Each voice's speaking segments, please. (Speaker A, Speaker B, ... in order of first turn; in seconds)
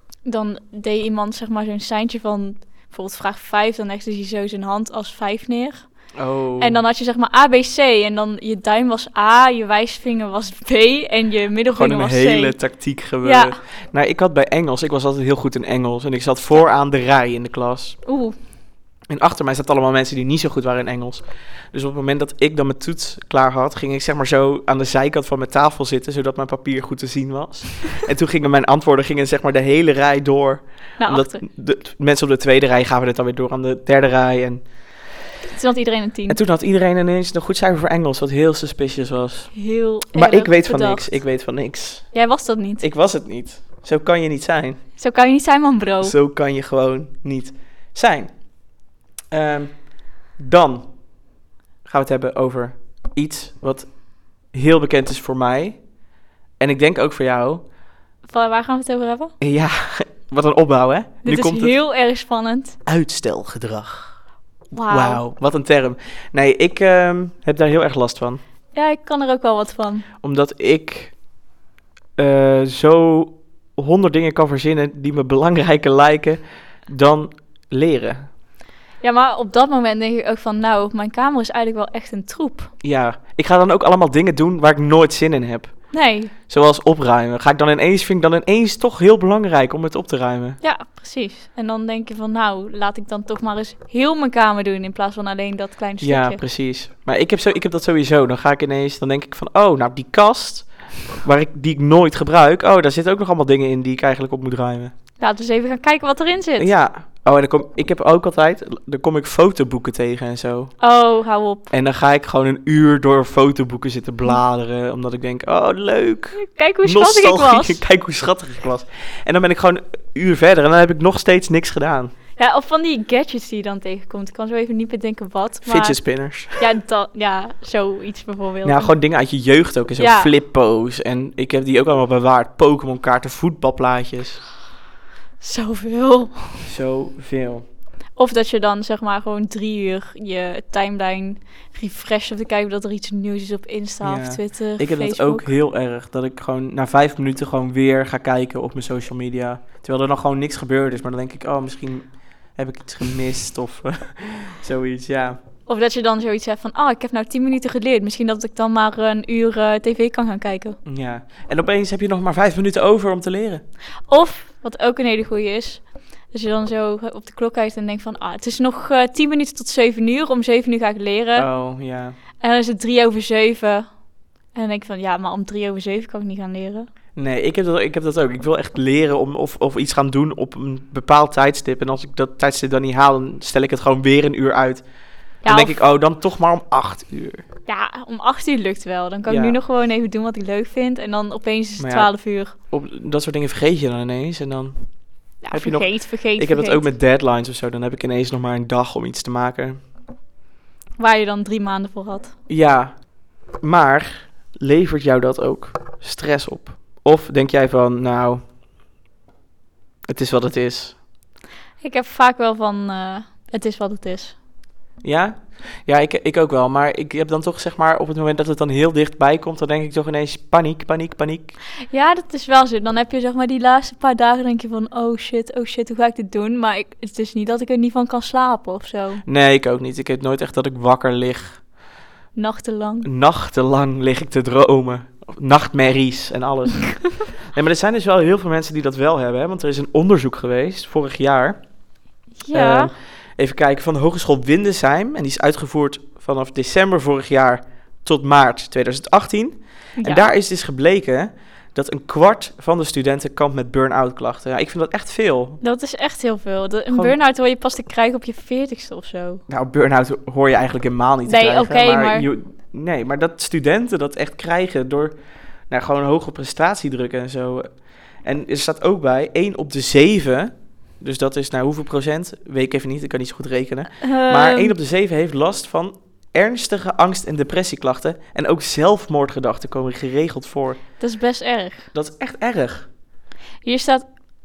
Speaker A: 0.2-5.9, 6.6-12.6, 13.2-13.5, 18.1-18.4, 31.0-31.4, 35.5-36.4, 39.5-41.1, 42.1-42.8, 45.0-46.1, 58.3-59.3, 61.2-62.8, 64.7-65.2, 68.7-70.0, 79.0-82.7, 85.9-86.3, 90.6-96.4, 105.2-106.7, 110.8-111.7, 116.3-117.8, 122.4-126.0, 126.6-128.9, 130.0-130.3, 135.4-136.7, 138.2-145.5, 155.7-160.8, 164.1-171.5, 172.4-173.9, 174.5-176.9, 185.4-185.8, 187.7-192.5, 195.4-196.9, 201.0-202.3, 211.8-214.3, 221.9-229.2, 232.3-233.1, 242.4-242.9, 250.0-250.3, 255.6-259.4, 261.2-262.2, 274.0-274.7, 281.0-281.9, 283.6-284.1
Speaker B: 6.2-6.8, 11.7-18.0, 19.1-34.6, 36.3-39.5, 40.1-42.1, 42.8-44.8, 46.0-48.3, 49.3-49.8, 50.4-50.9, 51.8-55.8, 56.6-57.6, 59.4-61.7, 62.9-64.2, 64.9-68.4, 70.2-71.1, 72.2-78.3, 82.8-85.7, 86.5-90.6, 96.0-104.9, 106.6-110.7, 111.7-122.1, 125.6-126.6, 128.6-134.4, 136.6-137.7, 144.0-155.4, 160.8-163.6, 171.3-172.2, 177.2-184.8, 185.4-187.4, 189.3-189.6, 191.8-192.1, 192.7-194.8, 195.5-199.8, 202.5-203.0, 203.6-208.4, 210.1-211.0, 215.0-221.6, 229.2-231.6, 233.0-241.6, 242.5-255.6, 256.9-257.1, 259.5-265.1, 265.7-267.7, 268.2-280.8, 281.9-282.9